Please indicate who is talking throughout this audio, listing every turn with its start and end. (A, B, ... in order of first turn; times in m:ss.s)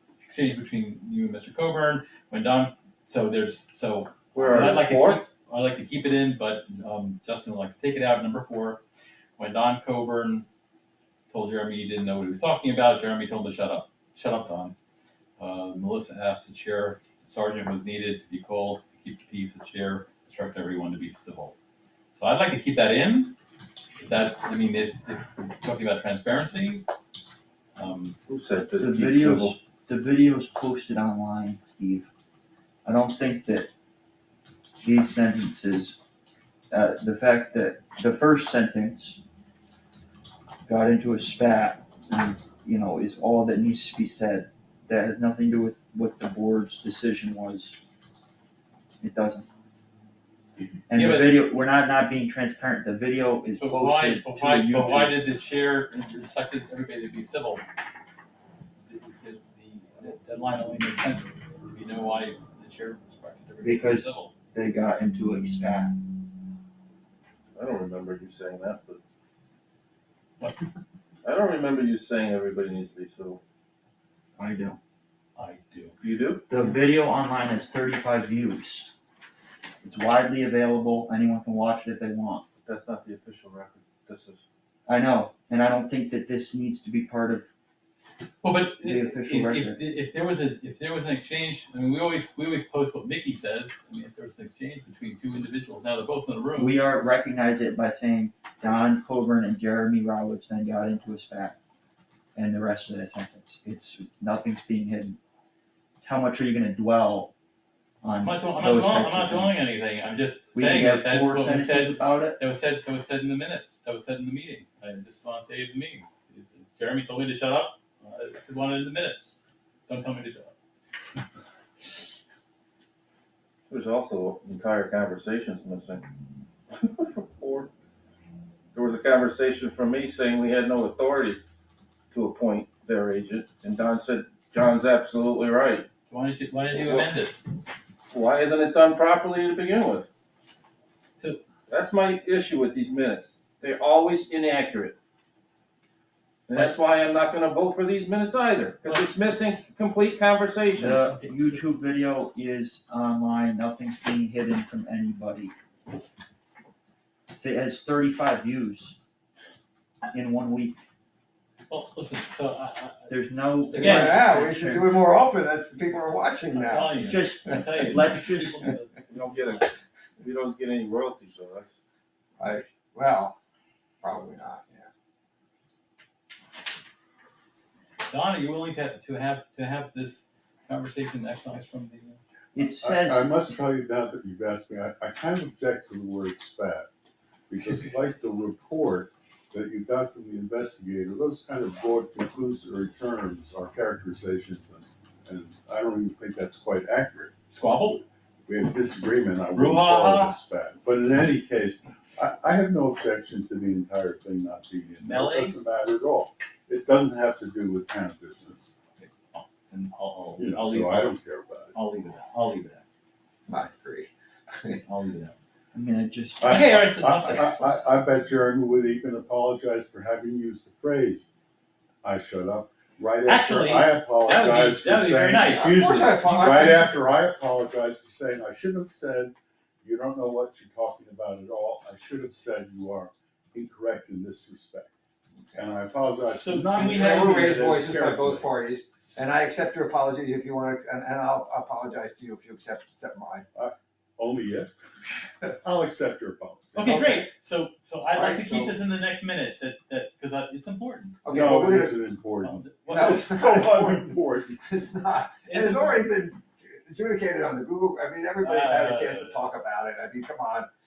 0:00.2-0:08.8 A
0:04.3-0:05.2 B
0:09.4-0:10.4 A
0:11.3-0:14.7 A
0:15.4-0:21.5 A
0:22.2-0:23.3 A
0:24.0-0:26.8 A
0:27.8-0:28.2 A
0:28.3-0:29.5 B
0:28.8-0:32.1 C
0:32.8-0:33.7 C
0:34.8-0:36.0 C
0:36.7-0:39.2 C
0:40.6-0:47.8 C
0:49.0-0:49.5 C
0:50.9-0:55.2 C
0:50.9-0:51.4 A
0:53.6-0:57.6 A
0:58.9-1:04.3 A
1:03.6-1:06.0 C
1:07.5-1:09.0 B
1:10.4-1:10.7 A
1:11.2-1:13.4 B
1:14.4-1:14.8 C
1:15.4-1:15.9 A
1:16.0-1:16.4 B
1:16.5-1:18.9 C
1:19.8-1:22.4 C
1:22.6-1:24.4 B
1:24.8-1:27.5 C
1:28.4-1:36.8 A
1:28.8-1:29.8 C
1:36.6-1:41.6 C
1:42.3-1:45.2 C
1:46.0-1:47.3 C
1:48.0-1:49.6 C
1:48.2-1:59.3 A
1:50.5-1:52.4 C
1:59.9-2:00.5 A
2:03.7-2:06.0 B
2:06.7-2:07.7 B
2:08.7-2:11.4 B
2:12.1-2:15.9 B
2:16.1-2:17.4 A
2:16.7-2:17.1 B
2:18.1-2:20.1 B
2:21.2-2:21.4 A
2:21.7-2:25.0 B
2:26.5-2:31.0 B
2:28.8-2:29.2 A
2:30.8-2:35.5 C
2:30.9-2:31.6 A
2:37.3-2:39.0 C
2:40.1-2:40.8 C
2:41.7-2:43.1 A
2:43.1-2:44.9 C
2:43.7-2:44.6 A
2:43.7-2:47.9 D
2:46.5-2:49.6 A
2:47.0-2:48.7 C
2:49.1-2:51.7 B
2:52.4-2:53.4 D
2:54.0-2:54.9 D
2:58.1-3:02.2 A
3:02.5-3:03.3 C
3:02.8-3:06.9 E
3:07.5-3:17.3 E
3:17.5-3:18.0 A
3:17.9-3:28.7 E
3:19.5-3:20.4 A
3:25.0-3:25.6 A
3:29.0-3:31.1 A
3:30.4-3:31.8 E
3:31.7-3:32.8 A
3:33.5-3:34.8 D
3:34.8-3:35.3 A
3:35.7-3:36.8 C
3:36.4-3:41.3 E
3:36.4-3:37.7 A
3:42.0-3:54.9 E
3:43.2-3:45.8 A
3:45.5-3:46.9 D
3:55.6-3:58.6 E
3:56.2-3:57.5 A
3:56.7-4:03.4 D
4:03.5-4:04.7 E
4:05.6-4:07.0 E
4:06.8-4:11.2 A
4:06.8-4:07.2 D
4:08.1-4:08.8 D
4:11.2-4:12.1 D
4:11.3-4:14.6 E
4:12.4-4:13.4 A
4:12.9-4:20.7 D
4:15.5-4:16.1 A
4:18.4-4:19.4 A